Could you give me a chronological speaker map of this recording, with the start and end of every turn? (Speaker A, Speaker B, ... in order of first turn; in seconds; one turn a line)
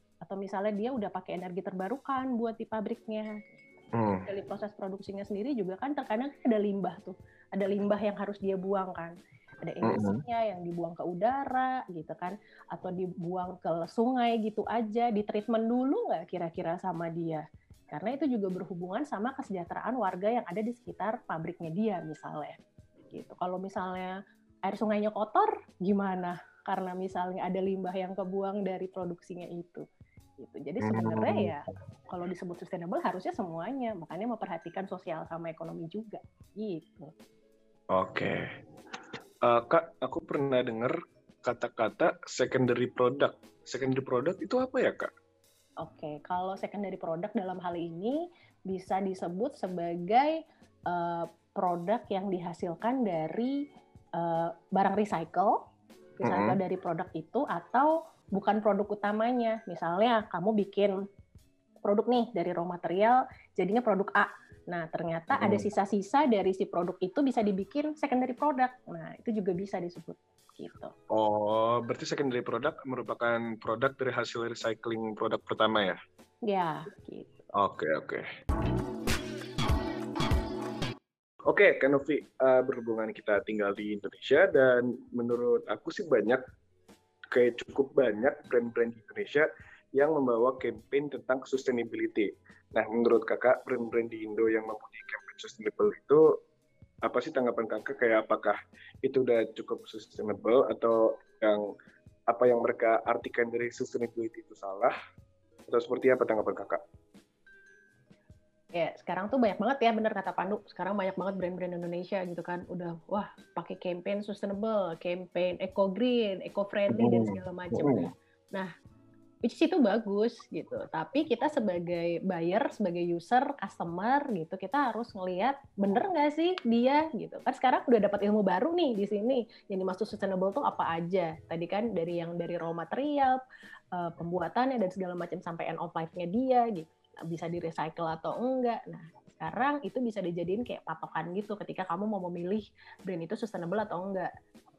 Speaker A: 0.2-22.6
Speaker B: 3.9-4.3
Speaker B: 9.8-10.2
Speaker A: 23.1-24.1
Speaker A: 24.7-29.8
Speaker A: 30.4-37.1
Speaker B: 30.8-31.5
Speaker B: 37.9-38.5
Speaker B: 39.4-45.1
Speaker A: 45.8-53.6
Speaker A: 54.2-55.6
Speaker A: 56.2-60.9
Speaker B: 56.2-56.6
Speaker A: 61.8-70.9
Speaker B: 65.3-65.6
Speaker B: 71.1-76.0
Speaker A: 76.5-77.4
Speaker B: 77.5-78.2
Speaker B: 81.5-86.4
Speaker B: 87.3-96.3
Speaker B: 97.0-101.7
Speaker B: 102.3-104.9
Speaker B: 105.7-106.8
Speaker A: 108.7-118.7
Speaker B: 116.9-118.1
Speaker A: 119.4-133.4
Speaker A: 133.9-144.3